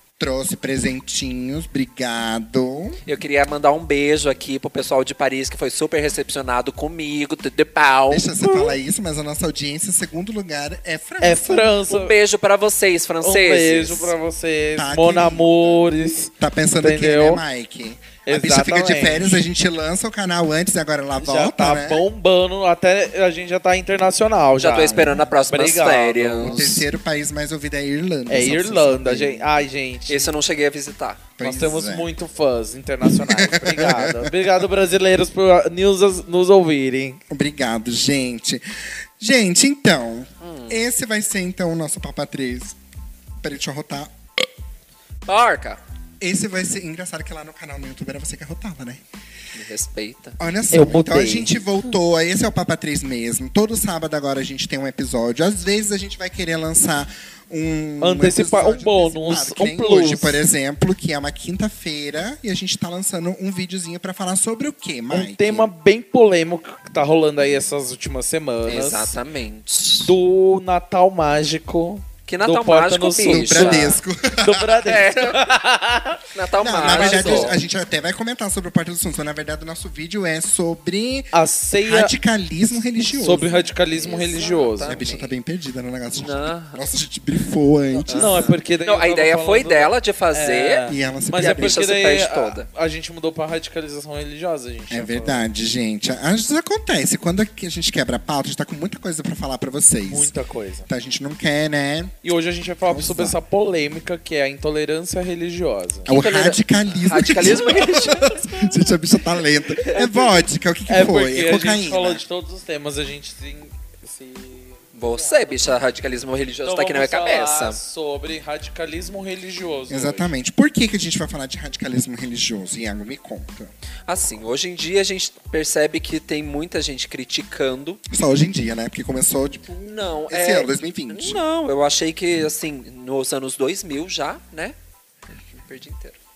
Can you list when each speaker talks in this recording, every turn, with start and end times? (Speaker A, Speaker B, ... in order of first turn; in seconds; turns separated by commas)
Speaker A: 0.2-3.0, Speaker B: 3.1-8.3, Speaker A: 8.1-11.7, Speaker C: 11.2-12.1, Speaker B: 11.9-14.1, Speaker C: 13.2-17.4, Speaker A: 14.8-15.9, Speaker A: 16.4-22.0, Speaker C: 18.3-19.4, Speaker C: 21.2-26.7, Speaker B: 24.6-26.8, Speaker A: 24.9-25.3, Speaker A: 26.4-29.5, Speaker C: 28.3-30.3, Speaker B: 30.1-31.3, Speaker A: 31.4-32.1, Speaker C: 31.4-37.2, Speaker A: 33.0-34.4, Speaker A: 37.3-42.8, Speaker B: 40.4-40.8, Speaker A: 43.4-44.1, Speaker B: 45.3-45.8, Speaker A: 46.2-49.0, Speaker B: 49.5-50.4, Speaker A: 50.4-65.7, Speaker C: 50.7-51.5, Speaker C: 58.0-60.4, Speaker C: 65.1-69.2, Speaker B: 68.7-70.1, Speaker C: 70.0-76.2, Speaker B: 72.3-74.0, Speaker A: 73.3-74.9, Speaker B: 74.7-75.4, Speaker B: 76.3-77.6, Speaker A: 76.6-81.3, Speaker C: 76.8-77.6, Speaker C: 81.3-82.1, Speaker A: 81.8-83.5, Speaker C: 83.1-85.0, Speaker B: 83.5-85.3, Speaker A: 84.9-88.5, Speaker B: 86.2-86.8, Speaker C: 88.0-95.5, Speaker B: 88.1-92.7, Speaker A: 90.9-91.8, Speaker A: 94.9-100.3, Speaker C: 100.1-100.9, Speaker A: 100.9-102.2, Speaker C: 102.2-106.1, Speaker A: 102.9-103.3, Speaker A: 106.1-112.2, Speaker B: 106.1-108.3, Speaker C: 107.7-108.7, Speaker C: 110.0-110.3, Speaker C: 110.9-115.7, Speaker B: 115.0-117.8, Speaker C: 116.7-120.3, Speaker A: 119.9-123.7, Speaker B: 124.1-128.0, Speaker A: 128.1-131.4, Speaker B: 129.8-134.8, Speaker B: 135.5-136.2